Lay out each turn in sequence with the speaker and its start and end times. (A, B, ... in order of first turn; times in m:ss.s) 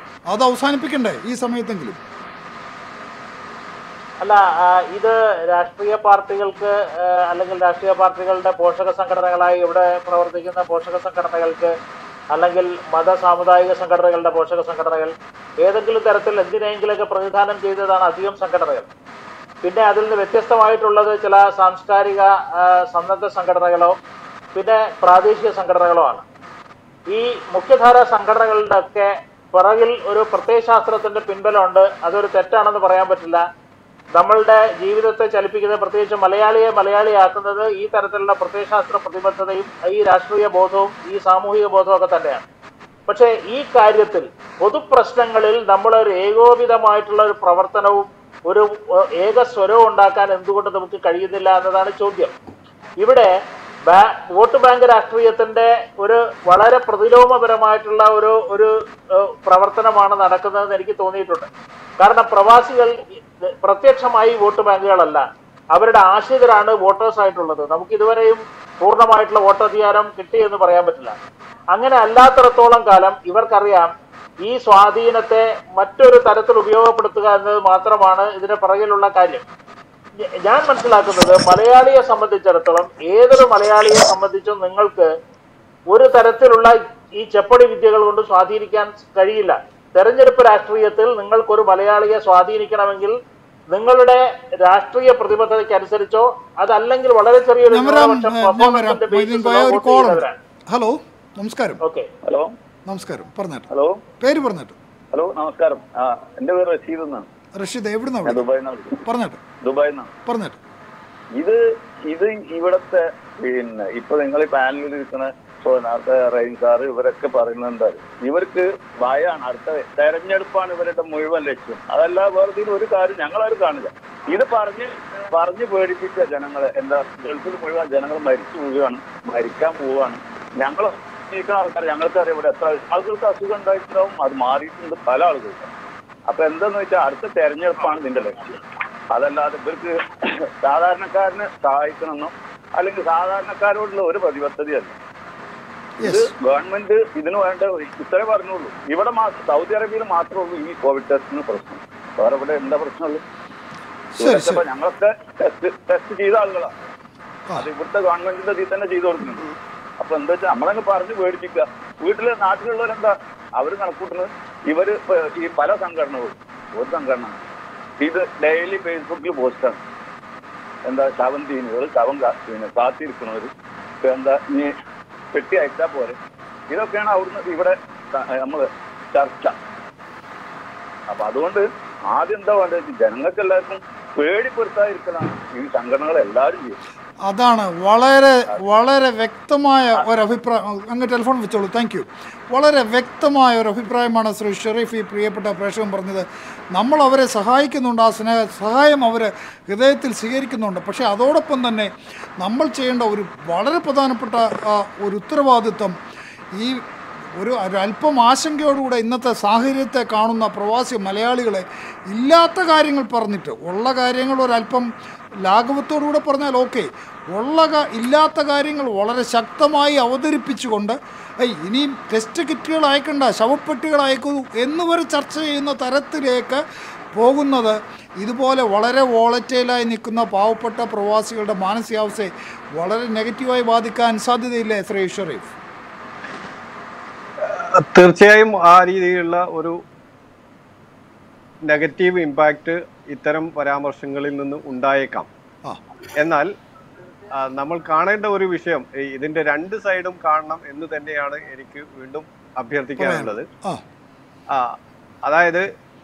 0:00.3-0:02.0 A
0:04.2-0:11.8 B
0:12.3-0:18.9 B
0:19.6-0:24.0 B
0:24.6-0:26.2 B
0:27.1-0:33.4 B
0:34.2-0:42.5 B
0:43.1-0:52.3 B
0:53.0-0:53.3 B
0:53.9-1:11.2 B
1:11.7-1:13.9 B
1:14.4-1:19.4 B
1:20.3-1:25.1 B
1:25.9-1:33.2 B
1:33.7-1:40.4 B
1:37.7-1:41.8 A
1:41.8-1:42.1 B
1:42.2-1:42.5 C
1:42.9-1:43.7 A
1:43.7-1:44.0 C
1:44.2-1:44.8 A
1:45.1-1:47.3 C
1:47.6-1:48.5 A
1:48.2-1:49.0 C
1:49.0-1:49.4 A
1:49.6-1:50.1 C
1:50.3-1:50.6 A
1:51.4-2:15.7 C
2:16.3-2:18.6 C
2:19.1-2:19.9 C
2:20.6-2:25.0 C
2:26.0-2:26.3 A
2:26.0-2:33.2 C
2:34.2-2:34.6 A
2:34.2-2:36.7 C
2:37.6-2:39.4 C
2:40.0-2:47.4 C
2:48.0-2:49.8 C
2:50.9-2:53.5 C
2:54.0-2:54.7 C
2:55.3-2:56.2 C
2:56.7-2:59.6 C
3:01.1-3:06.8 C
3:07.3-3:26.0 A
3:26.6-3:26.8 A
3:27.4-3:34.9 A
3:35.5-3:46.6 A
3:47.2-3:55.5 A
3:57.4-3:59.8 D
4:01.6-4:05.3 D
4:06.2-4:06.5 D
4:07.3-4:13.5 D
4:13.0-4:13.8 A
4:14.5-4:15.7 D